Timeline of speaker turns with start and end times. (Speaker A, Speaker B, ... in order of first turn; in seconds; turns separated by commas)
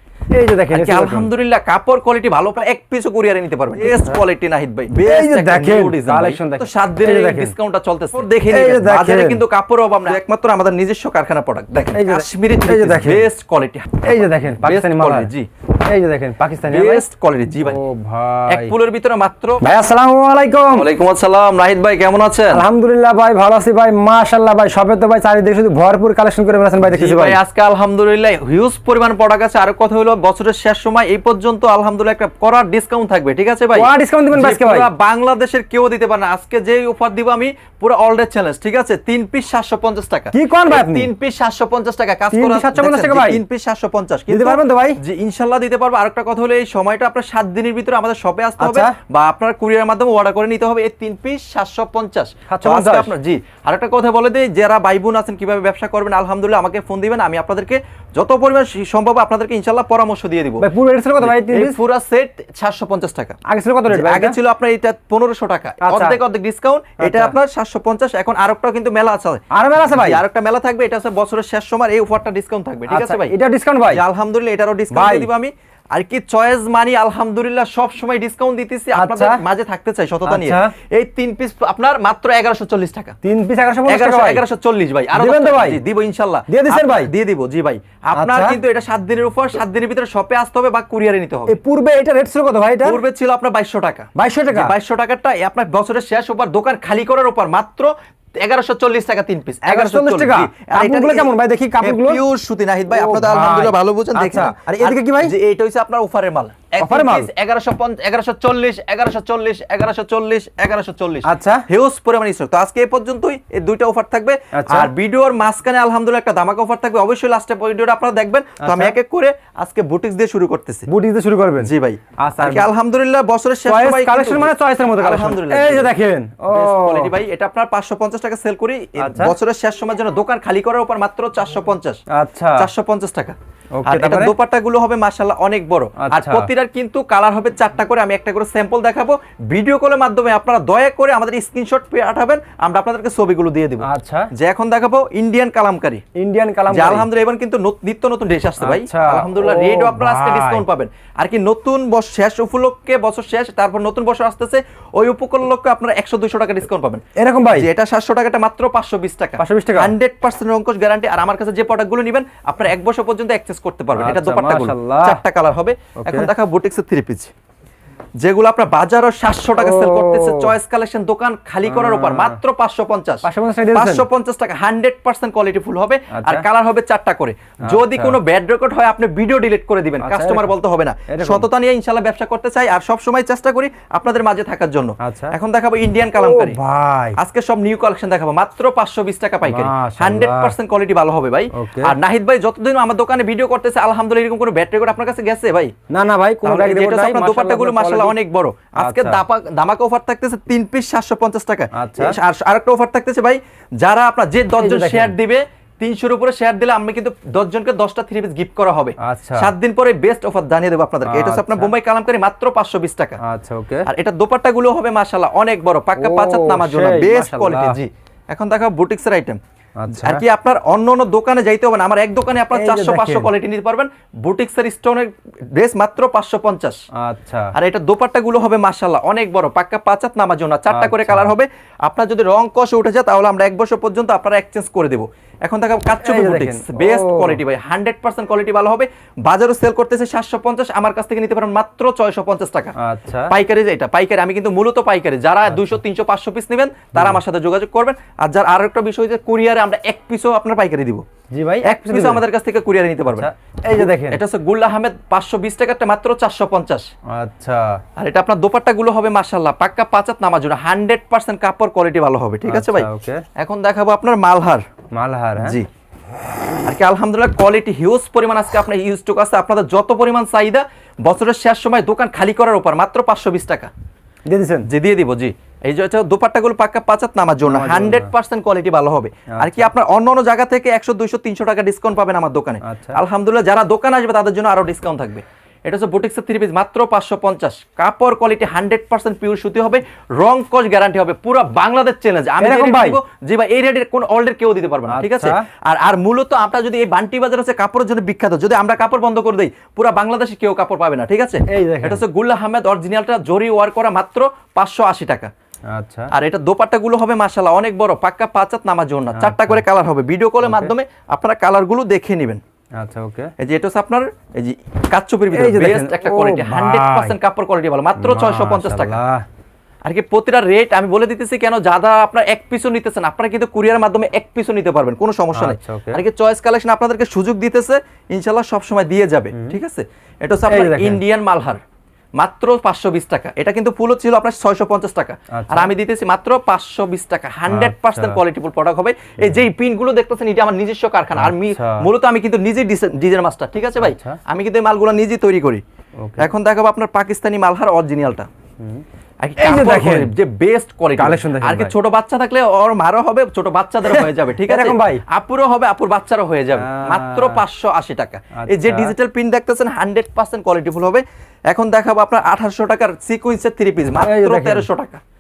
Speaker A: 0.3-1.3, Speaker B: 0.7-15.5, Speaker A: 3.8-4.2, Speaker A: 5.0-7.5, Speaker A: 8.4-9.4, Speaker A: 11.9-13.3, Speaker A: 14.0-17.1, Speaker B: 16.7-17.9, Speaker A: 17.6-18.8, Speaker B: 18.5-19.7, Speaker A: 19.6-20.9, Speaker B: 20.7-22.6, Speaker A: 22.5-27.4, Speaker B: 26.8-60.7, Speaker A: 33.7-34.9, Speaker A: 40.3-41.1, Speaker A: 42.3-43.4, Speaker A: 44.3-45.0, Speaker A: 48.6-49.0, Speaker A: 52.5-53.1, Speaker A: 60.6-61.8, Speaker B: 61.2-63.4, Speaker A: 63.5-64.4, Speaker B: 63.9-73.3, Speaker A: 65.8-66.2, Speaker A: 67.0-67.4, Speaker A: 69.5-70.2, Speaker A: 72.9-74.0, Speaker B: 73.9-83.2, Speaker A: 74.9-75.3, Speaker A: 79.0-79.4, Speaker A: 80.3-80.8, Speaker A: 83.2-84.5, Speaker B: 83.9-91.6, Speaker A: 85.1-85.8, Speaker A: 86.5-87.1, Speaker A: 88.2-88.6, Speaker A: 91.5-93.0, Speaker B: 92.8-120.9, Speaker A: 94.2-94.8, Speaker A: 99.6-102.2, Speaker A: 102.9-105.4, Speaker A: 106.8-107.3, Speaker A: 111.2-111.6, Speaker A: 114.5-114.9, Speaker A: 118.6-119.0, Speaker A: 120.9-122.7, Speaker B: 121.6-125.9, Speaker A: 123.7-127.2, Speaker B: 126.5-132.0, Speaker A: 129.0-129.4, Speaker A: 132.1-132.7, Speaker B: 132.6-146.0, Speaker A: 133.8-134.3, Speaker A: 136.0-136.5, Speaker A: 143.8-144.3, Speaker A: 146.2-147.1, Speaker B: 146.7-167.3, Speaker A: 148.6-150.7, Speaker A: 157.2-157.7, Speaker A: 159.4-159.9, Speaker A: 164.0-165.2, Speaker A: 166.0-166.3, Speaker B: 168.2-186.6, Speaker A: 169.6-170.6, Speaker A: 171.7-172.4, Speaker A: 173.2-174.1, Speaker A: 176.1-176.5, Speaker A: 177.7-178.2, Speaker A: 180.0-180.6, Speaker A: 181.1-181.5, Speaker A: 185.0-185.4, Speaker A: 186.1-187.2, Speaker B: 187.2-195.7, Speaker A: 189.4-190.6, Speaker A: 191.5-192.0, Speaker A: 195.9-198.2, Speaker B: 196.4-213.2, Speaker A: 198.8-199.2, Speaker A: 201.7-202.2, Speaker A: 204.6-205.2, Speaker A: 209.0-209.5, Speaker A: 211.1-211.7, Speaker A: 213.2-213.9, Speaker B: 213.9-219.4, Speaker A: 216.0-217.8, Speaker A: 219.8-220.2, Speaker B: 219.9-226.8, Speaker A: 222.5-223.3, Speaker A: 227.0-227.5, Speaker B: 227.5-242.8, Speaker A: 230.7-231.3, Speaker A: 236.0-237.4, Speaker A: 242.8-243.3, Speaker B: 243.3-251.0, Speaker A: 245.5-245.8, Speaker A: 246.9-247.2, Speaker A: 251.3-252.2, Speaker B: 251.6-256.9, Speaker A: 253.1-254.2, Speaker A: 257.1-257.8, Speaker B: 258.0-264.6, Speaker A: 262.4-263.2, Speaker A: 264.9-265.6, Speaker B: 265.4-265.7, Speaker B: 266.6-273.7, Speaker A: 274.3-274.7, Speaker B: 274.6-305.3, Speaker A: 277.4-278.1, Speaker A: 279.4-279.7, Speaker A: 282.6-283.0, Speaker A: 292.4-293.0, Speaker A: 294.9-295.5, Speaker A: 301.5-302.0, Speaker A: 305.7-306.1, Speaker B: 306.1-312.4, Speaker A: 309.1-309.6, Speaker A: 310.4-310.7, Speaker A: 312.8-313.3, Speaker B: 313.4-319.0, Speaker A: 315.3-317.2, Speaker A: 318.0-319.2, Speaker B: 319.9-331.6, Speaker A: 325.3-326.0, Speaker A: 329.3-329.6, Speaker A: 330.5-331.0, Speaker B: 332.2-345.6, Speaker A: 335.3-335.7, Speaker A: 337.5-338.2, Speaker A: 339.2-339.5, Speaker A: 341.1-341.9, Speaker A: 343.8-344.2, Speaker A: 346.0-346.3, Speaker B: 346.2-348.3, Speaker A: 348.6-348.8, Speaker B: 349.2-365.0, Speaker A: 349.4-350.1, Speaker A: 351.0-351.8, Speaker A: 353.8-355.0, Speaker A: 356.6-357.4, Speaker A: 358.3-358.9, Speaker A: 364.0-364.7